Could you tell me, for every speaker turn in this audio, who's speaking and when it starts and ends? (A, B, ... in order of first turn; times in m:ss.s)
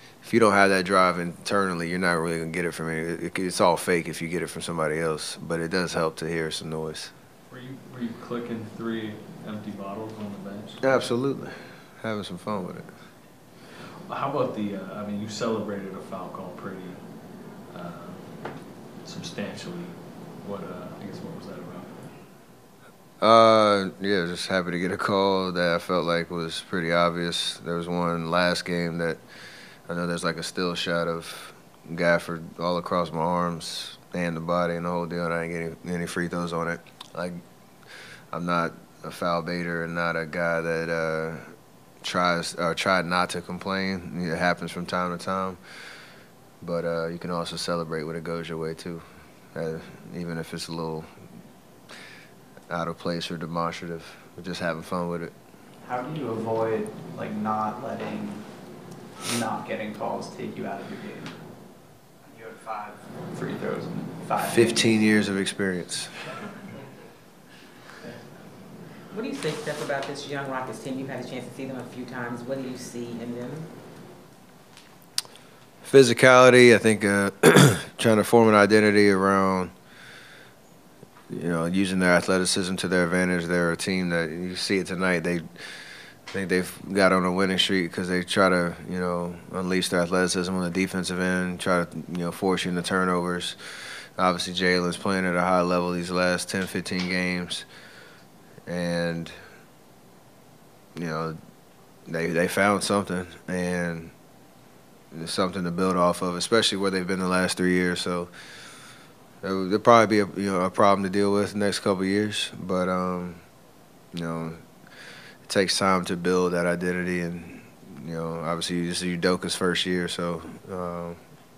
0:00.2-0:07.1 A
0:07.5-0:11.1 B
0:10.8-0:12.9 A
0:14.1-0:22.2 B
0:23.2-0:29.2 A
0:29.9-0:37.4 A
0:38.3-0:45.6 A
0:46.6-0:51.1 A
0:52.7-0:55.3 A
0:55.8-0:58.4 C
0:59.2-1:01.4 C
1:02.2-1:05.1 C
1:04.4-1:06.1 A
1:09.1-1:13.7 D
1:15.8-1:19.7 A
1:21.3-1:25.4 A
1:26.3-1:33.6 A
1:34.2-1:37.7 A
1:38.7-1:39.4 A
1:41.0-1:41.4 A
1:42.1-1:44.1 A
1:45.1-1:48.3 A
1:49.4-1:53.4 A
1:54.1-1:54.6 A
1:55.4-2:01.2 A